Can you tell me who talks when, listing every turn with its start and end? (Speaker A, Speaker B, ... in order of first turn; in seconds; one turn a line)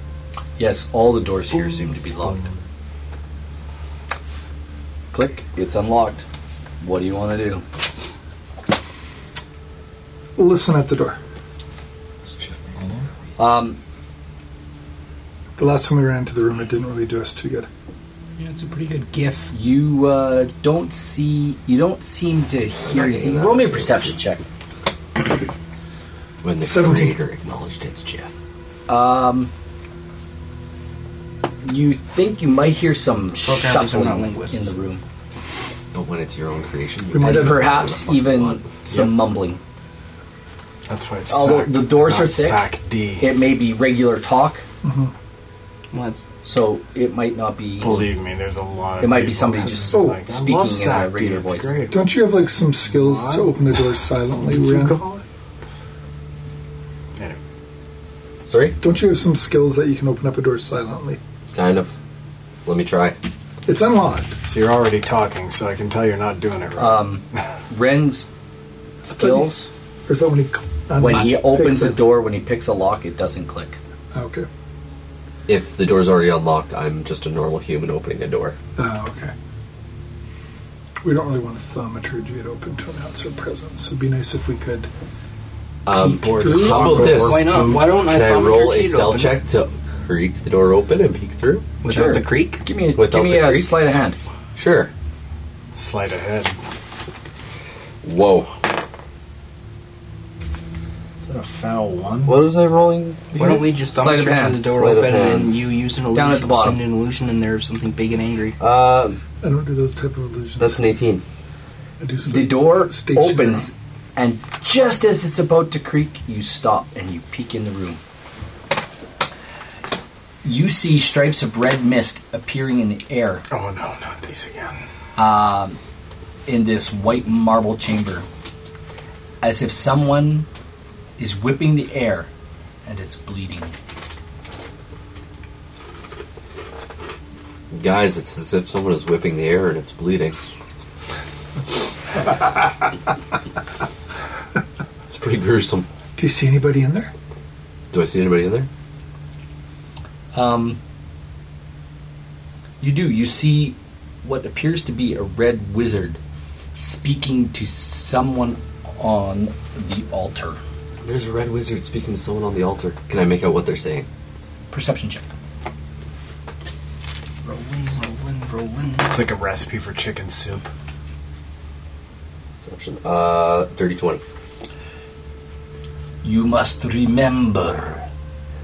Speaker A: 0.6-2.5
Speaker A: 5.1-6.2
Speaker A: 6.8-7.6
Speaker B: 10.3-11.2
Speaker C: 12.3-13.0
Speaker A: 13.4-13.8
Speaker B: 15.6-17.7
Speaker D: 18.4-19.5
Speaker A: 19.5-24.4
Speaker E: 22.8-24.1
Speaker E: 26.4-28.3
Speaker B: 26.6-27.1
Speaker A: 28.9-29.5
Speaker A: 31.6-35.0
Speaker D: 33.4-34.7
Speaker E: 35.9-38.6
Speaker B: 37.1-37.7
Speaker A: 37.1-39.6
Speaker C: 38.9-39.1
Speaker C: 40.9-43.3
Speaker A: 41.3-44.6
Speaker B: 44.8-45.1
Speaker D: 45.9-46.2
Speaker A: 46.4-48.1
Speaker C: 47.8-53.6
Speaker A: 49.0-51.7
Speaker B: 49.9-50.2
Speaker B: 51.9-55.0
Speaker C: 54.4-55.2
Speaker E: 58.5-58.8
Speaker B: 58.8-61.2
Speaker E: 61.5-61.9
Speaker E: 62.6-63.2
Speaker B: 63.6-64.4
Speaker C: 64.5-67.4
Speaker A: 66.8-68.3
Speaker B: 69.0-72.1
Speaker A: 69.0-69.7
Speaker A: 71.0-73.8
Speaker B: 74.1-74.5
Speaker E: 75.5-78.5
Speaker B: 78.8-79.3
Speaker B: 81.0-84.9
Speaker E: 85.8-91.7
Speaker B: 86.0-87.2
Speaker C: 86.2-87.8
Speaker D: 86.6-89.4
Speaker D: 91.8-92.6
Speaker A: 91.8-94.2
Speaker E: 92.9-93.7
Speaker E: 94.5-94.9
Speaker C: 95.7-96.6
Speaker E: 98.0-98.5
Speaker C: 101.2-102.4
Speaker E: 102.3-103.5
Speaker D: 103.3-108.6
Speaker A: 103.4-104.7
Speaker E: 104.6-105.7
Speaker A: 106.1-106.8
Speaker E: 108.6-109.2
Speaker B: 109.4-110.8
Speaker E: 110.6-111.2
Speaker B: 112.0-113.7
Speaker A: 112.2-118.0
Speaker A: 120.4-123.4
Speaker C: 123.5-124.8
Speaker A: 125.2-125.8
Speaker A: 126.5-128.3
Speaker A: 129.4-130.5
Speaker A: 131.2-132.3
Speaker A: 132.8-133.7
Speaker E: 137.7-140.4
Speaker E: 145.1-145.9
Speaker B: 146.2-147.1
Speaker E: 147.9-148.7
Speaker A: 150.3-150.8
Speaker A: 152.8-156.2
Speaker A: 156.7-160.6
Speaker E: 161.0-164.1
Speaker A: 164.7-165.2
Speaker D: 167.4-169.2
Speaker C: 169.1-170.7
Speaker E: 172.6-174.2
Speaker A: 176.2-178.0